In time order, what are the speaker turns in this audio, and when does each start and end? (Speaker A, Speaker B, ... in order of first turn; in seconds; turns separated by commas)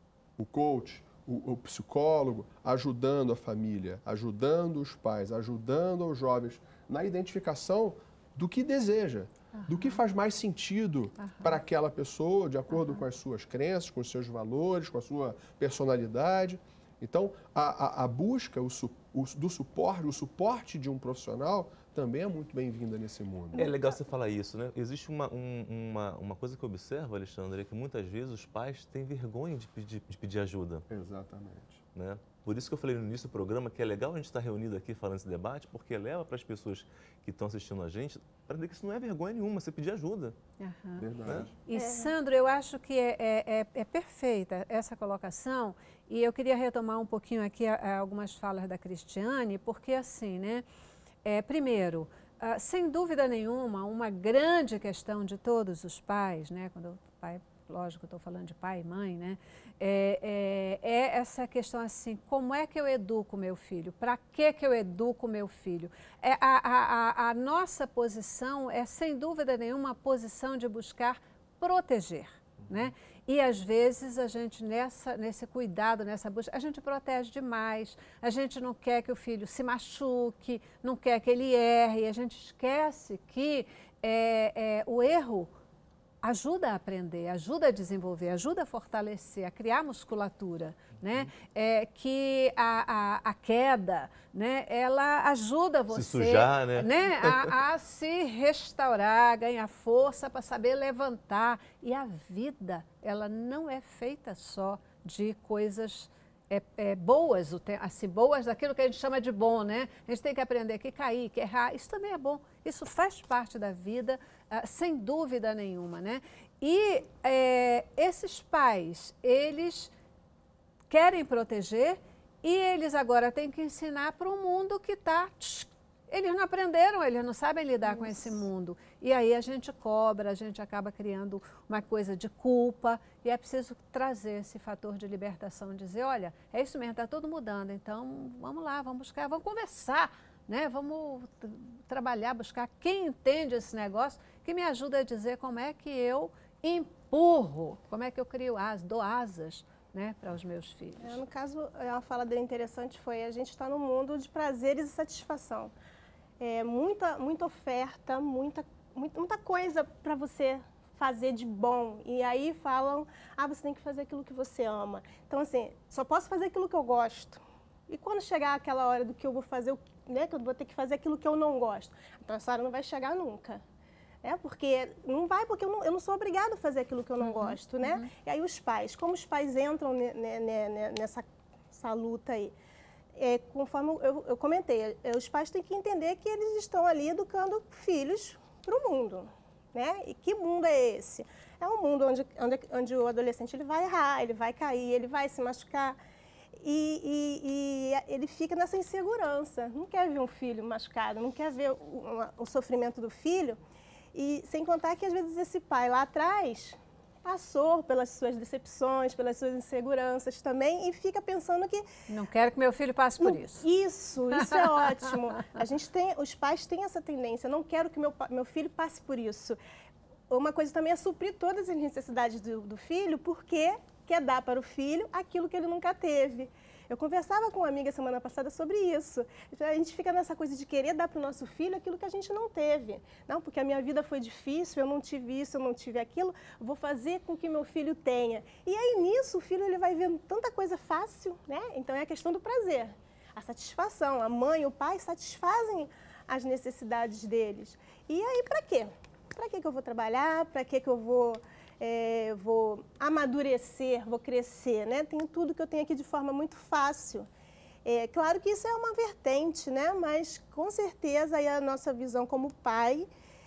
Speaker A: 0.4-23.7, Speaker B: 9.5-10.0, Speaker B: 11.2-11.6, Speaker B: 12.7-13.0, Speaker C: 23.5-30.9, Speaker A: 30.9-31.8, Speaker C: 31.9-40.4, Speaker B: 40.6-41.1, Speaker A: 41.0-41.5, Speaker B: 41.7-50.6, Speaker D: 41.7-42.1, Speaker B: 51.2-85.5, Speaker B: 86.2-119.9, Speaker C: 95.9-97.6, Speaker B: 120.9-151.2, Speaker D: 151.0-155.7, Speaker D: 156.4-173.6, Speaker D: 174.2-182.5, Speaker B: 177.2-178.1, Speaker D: 183.2-196.0, Speaker D: 196.6-203.6, Speaker D: 204.1-211.8, Speaker B: 212.1-213.7, Speaker D: 213.2-219.6, Speaker B: 214.3-215.1, Speaker D: 220.3-257.3, Speaker D: 257.9-263.1